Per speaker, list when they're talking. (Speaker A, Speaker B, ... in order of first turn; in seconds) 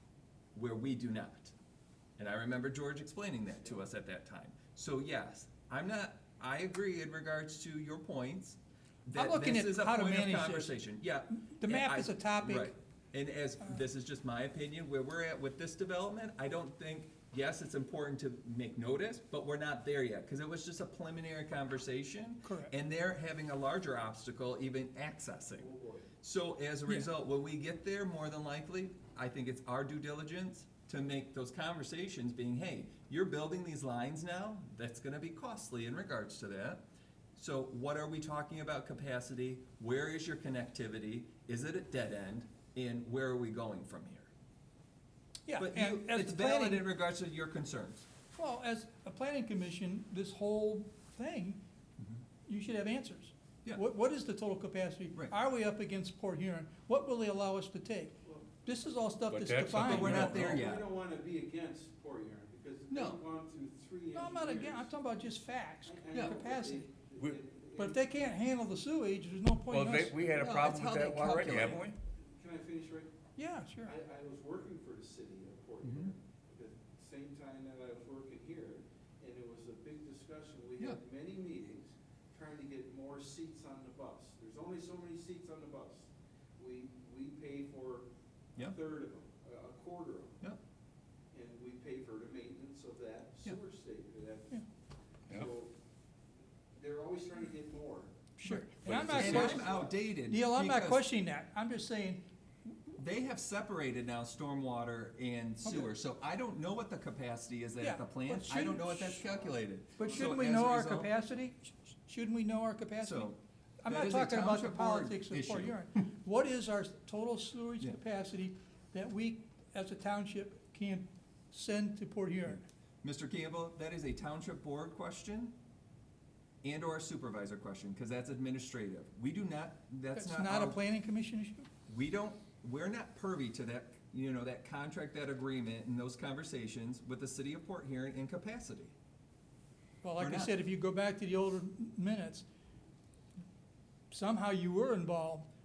Speaker A: 0.6-1.5, 2.2-25.7, 26.2-36.8, 37.4-44.3, 45.6-48.1, 59.7-60.9, 62.9-63.2, 70.3-71.8, 75.8-76.1, 98.5-101.0, 103.0-111.1, 113.0-115.8, 123.0-125.6, 126.6-130.8, 131.9-138.9, 140.2-140.6
Speaker B: 9.1-10.8, 11.4-12.7, 22.4-22.7, 45.5-46.9, 48.3-51.6, 52.5-60.6, 64.1-66.9, 67.8-70.5, 73.4-73.9, 98.4-103.0, 105.7-105.9, 107.8-109.3, 110.0-122.6, 130.2-131.7, 140.0-142.5, 144.1-145.5
Speaker C: 25.6-26.1, 60.2-64.9, 65.8-68.1, 72.2-73.2, 73.8-90.4, 91.3-94.6, 95.3-95.7, 96.8-98.2, 98.9-99.9, 109.2-110.5
Speaker D: 59.3-60.6, 69.7-72.0, 98.8-99.7